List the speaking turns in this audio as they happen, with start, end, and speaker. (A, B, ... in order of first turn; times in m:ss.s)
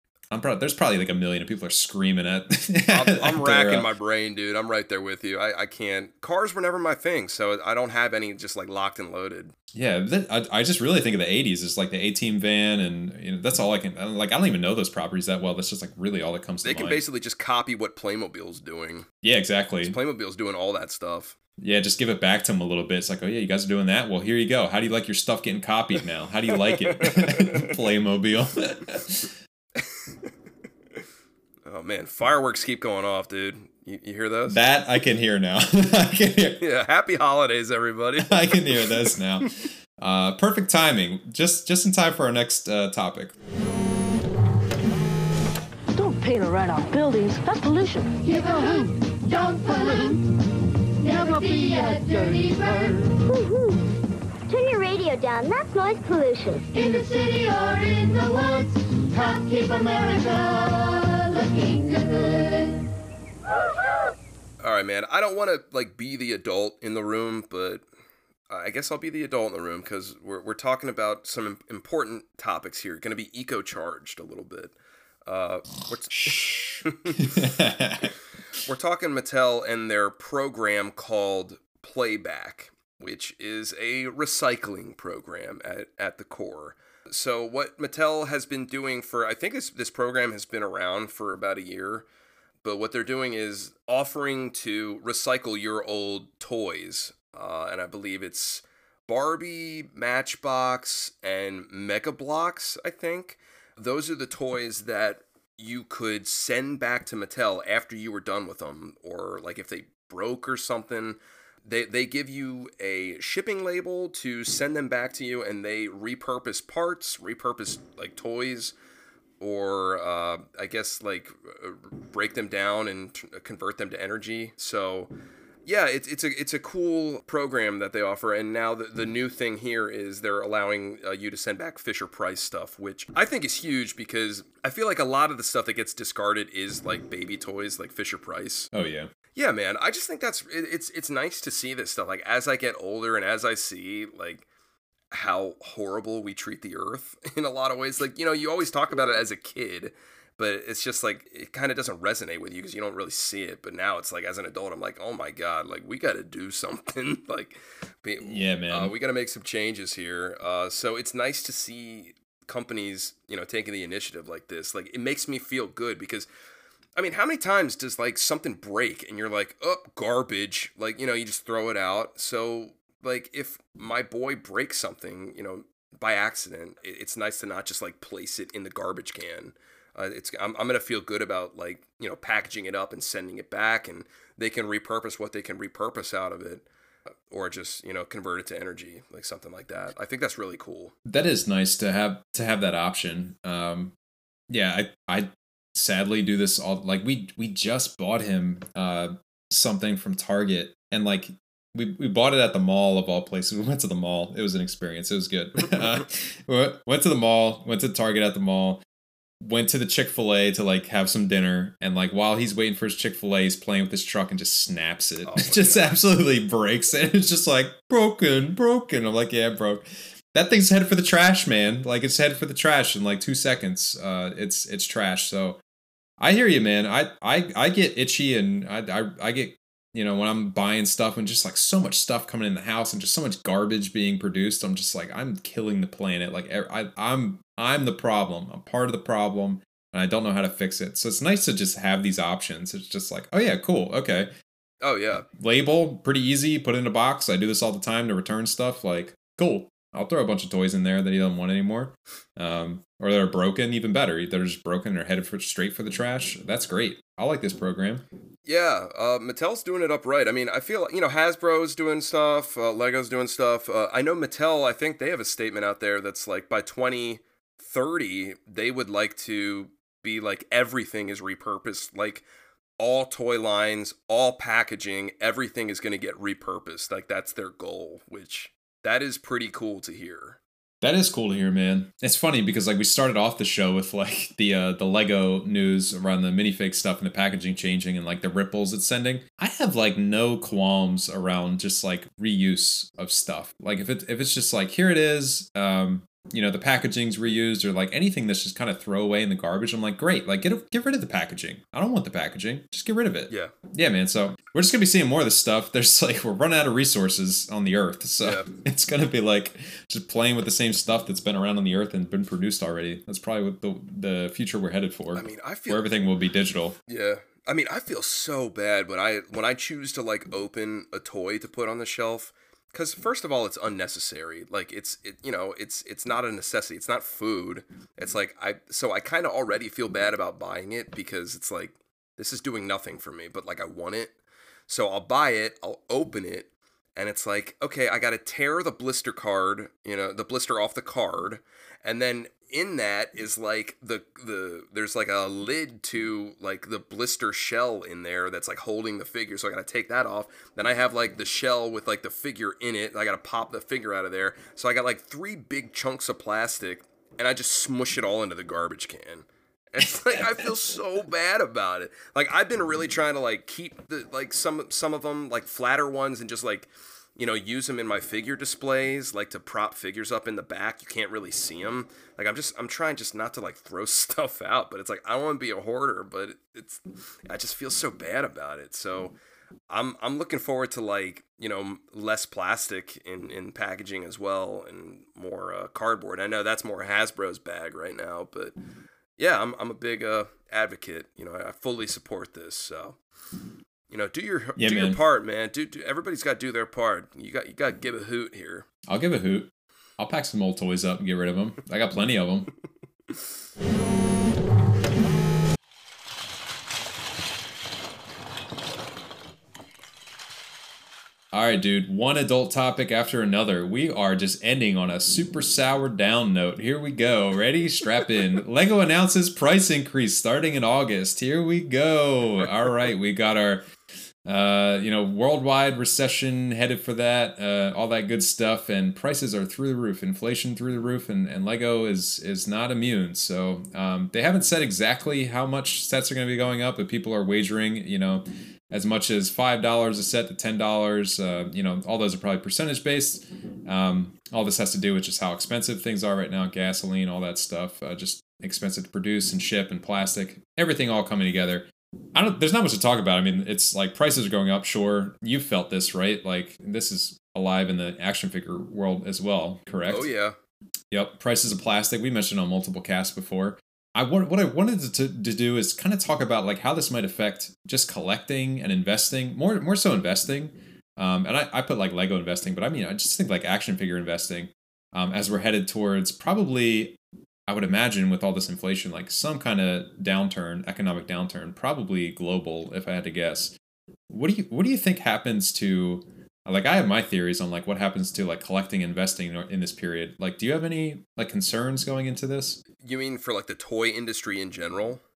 0:00.3-0:03.9 A
0:02.9-0:09.5 B
0:09.7-0:17.0 A
0:16.6-0:19.1 B
0:19.2-0:20.0 A
0:19.8-0:21.3 B
0:21.6-0:29.3 A
0:26.5-0:27.7 B
0:31.6-0:34.6 B
0:34.5-0:36.6 A
0:36.6-0:39.1 B
0:38.2-0:43.3 A
0:45.9-0:48.1 C
0:48.1-0:50.4 D
0:51.0-0:53.2 D
0:53.3-0:53.8 E
0:54.5-0:56.6 E
0:56.7-1:02.8 D
1:04.6-1:07.8 B
1:08.5-1:14.7 B
1:15.2-1:17.3 B
1:16.2-1:16.6 A
1:17.2-1:18.1 A
1:18.6-1:32.0 B
1:32.6-1:58.7 B
1:59.4-2:05.1 B
2:05.6-2:18.7 B
2:18.7-2:19.1 A
2:19.3-2:24.4 B
2:25.1-2:46.3 B
2:38.2-2:38.9 A
2:47.0-3:06.6 B
3:07.3-3:10.9 B
3:11.0-3:13.9 A
3:14.5-3:28.8 A
3:29.4-3:45.6 A
3:35.2-3:36.0 B
3:46.2-4:04.3 A
4:04.8-4:05.2 B
4:05.4-4:18.0 A
4:18.4-4:32.2 B
4:32.8-4:40.4 B
4:40.8-5:16.8 A
5:08.2-5:08.5 B
5:15.1-5:15.9 B
5:16.9-5:34.1 B
5:34.7-6:19.1 B
6:19.7-6:28.6 B
6:29.2-6:33.0 B
6:33.9-6:38.6 B
6:34.6-6:35.0 A
6:38.9-6:42.5 A
6:51.3-7:03.6 A
7:04.2-7:40.1 A
7:39.9-7:40.4 B
7:40.9-8:03.5 A
8:04.1-8:12.6 A
8:12.7-8:15.0 B